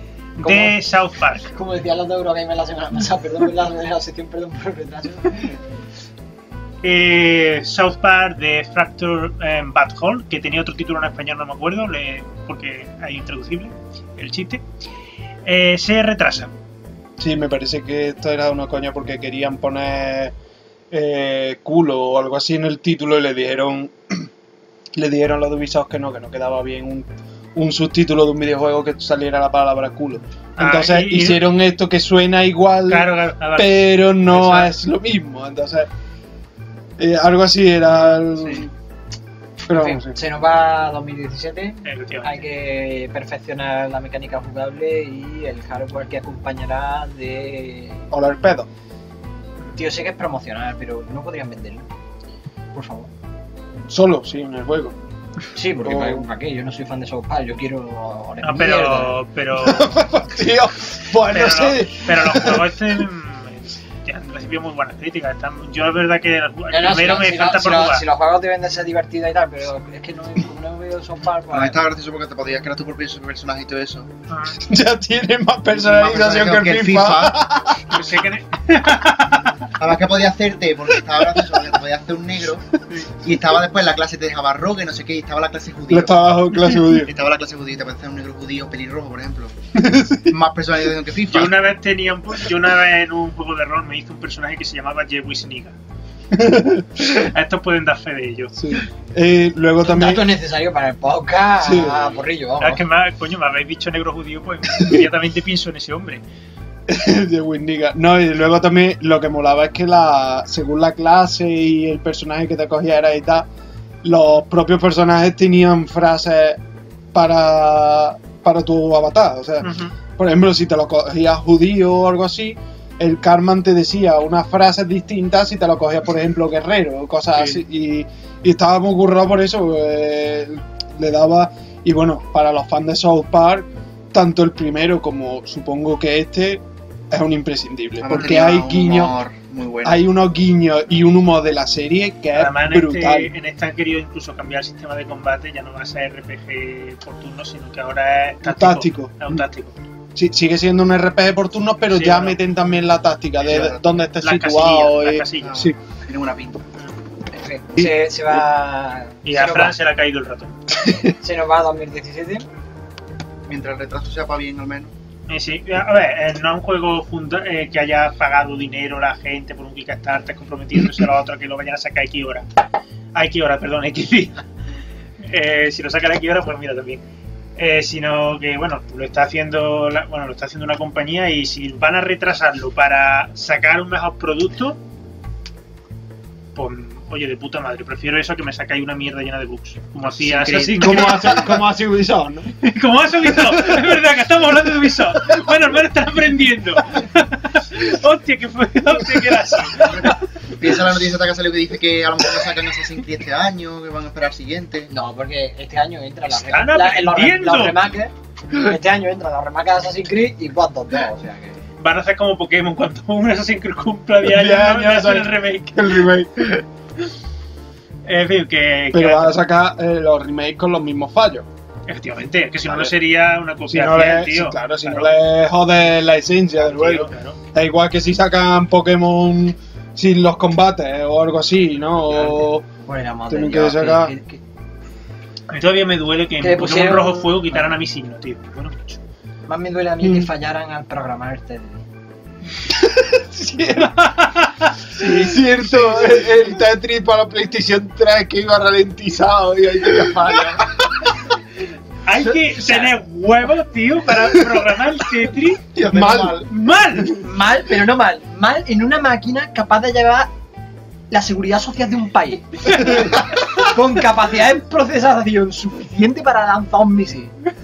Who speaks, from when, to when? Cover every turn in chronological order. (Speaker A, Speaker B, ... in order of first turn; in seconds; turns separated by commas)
Speaker A: 0.4-0.8, Speaker B: 0.4-1.5, Speaker A: 1.5-5.6, Speaker B: 6.8-14.6, Speaker B: 15.4-16.5, Speaker C: 17.2-20.4, Speaker C: 20.9-24.3, Speaker C: 24.9-35.9, Speaker B: 30.6-31.4, Speaker B: 32.9-34.7, Speaker C: 37.0-38.7, Speaker B: 37.9-38.5, Speaker C: 39.7-40.2, Speaker A: 39.7-48.1, Speaker B: 41.9-42.4, Speaker C: 48.1-48.7, Speaker A: 49.8-51.9, Speaker A: 52.7-53.1, Speaker C: 53.9-55.0, Speaker A: 55.5-59.2, Speaker C: 55.8-56.3, Speaker B: 58.4-60.0, Speaker C: 59.6-63.0, Speaker B: 61.2-68.0, Speaker A: 66.7-71.8, Speaker D: 71.5-74.1, Speaker B: 74.3-74.6, Speaker C: 74.6-78.0, Speaker D: 75.7-77.5, Speaker B: 77.9-79.6, Speaker D: 79.8-86.2, Speaker C: 81.2-81.6, Speaker C: 85.9-87.1, Speaker D: 86.8-89.5, Speaker C: 89.8-90.3, Speaker D: 90.3-91.6, Speaker B: 91.3-95.8, Speaker C: 96.3-97.1, Speaker B: 97.0-98.5, Speaker C: 98.5-100.2, Speaker A: 99.8-102.8, Speaker C: 101.6-102.2, Speaker B: 102.6-106.2, Speaker C: 106.9-113.5, Speaker C: 114.0-116.6, Speaker C: 117.1-139.2, Speaker B: 119.6-120.0, Speaker D: 138.0-140.0, Speaker C: 139.8-143.3, Speaker B: 142.3-149.8, Speaker C: 148.4-149.4, Speaker C: 150.2-155.8, Speaker B: 151.9-152.4, Speaker D: 153.4-154.1, Speaker B: 154.2-155.6, Speaker D: 155.4-156.7, Speaker A: 157.4-159.8, Speaker B: 159.2-160.5, Speaker A: 161.0-162.5, Speaker D: 163.5-164.9, Speaker B: 165.3-172.5, Speaker B: 173.1-174.4, Speaker B: 175.2-177.0, Speaker B: 177.6-184.8, Speaker B: 186.6-191.5, Speaker D: 190.2-191.6, Speaker C: 190.8-192.5, Speaker B: 192.6-200.2, Speaker D: 199.8-204.9, Speaker A: 204.9-211.6, Speaker B: 206.2-207.9, Speaker B: 211.8-216.1, Speaker C: 214.2-216.6, Speaker B: 218.0-219.4, Speaker C: 218.9-221.5, Speaker B: 221.9-225.1, Speaker C: 222.7-222.9, Speaker C: 223.7-232.7, Speaker B: 226.6-227.4, Speaker A: 232.2-234.4, Speaker C: 233.3-234.1, Speaker B: 235.5-239.0, Speaker A: 236.4-237.7, Speaker A: 239.5-241.8, Speaker C: 240.0-240.3, Speaker C: 242.7-244.0, Speaker B: 243.8-244.9, Speaker C: 244.9-251.2, Speaker A: 245.7-246.3, Speaker A: 250.2-250.6, Speaker B: 252.0-255.6, Speaker A: 252.2-252.9, Speaker D: 255.7-256.5, Speaker C: 255.9-256.4, Speaker B: 256.5-257.2, Speaker A: 257.1-260.3, Speaker A: 261.1-267.3, Speaker C: 262.7-263.1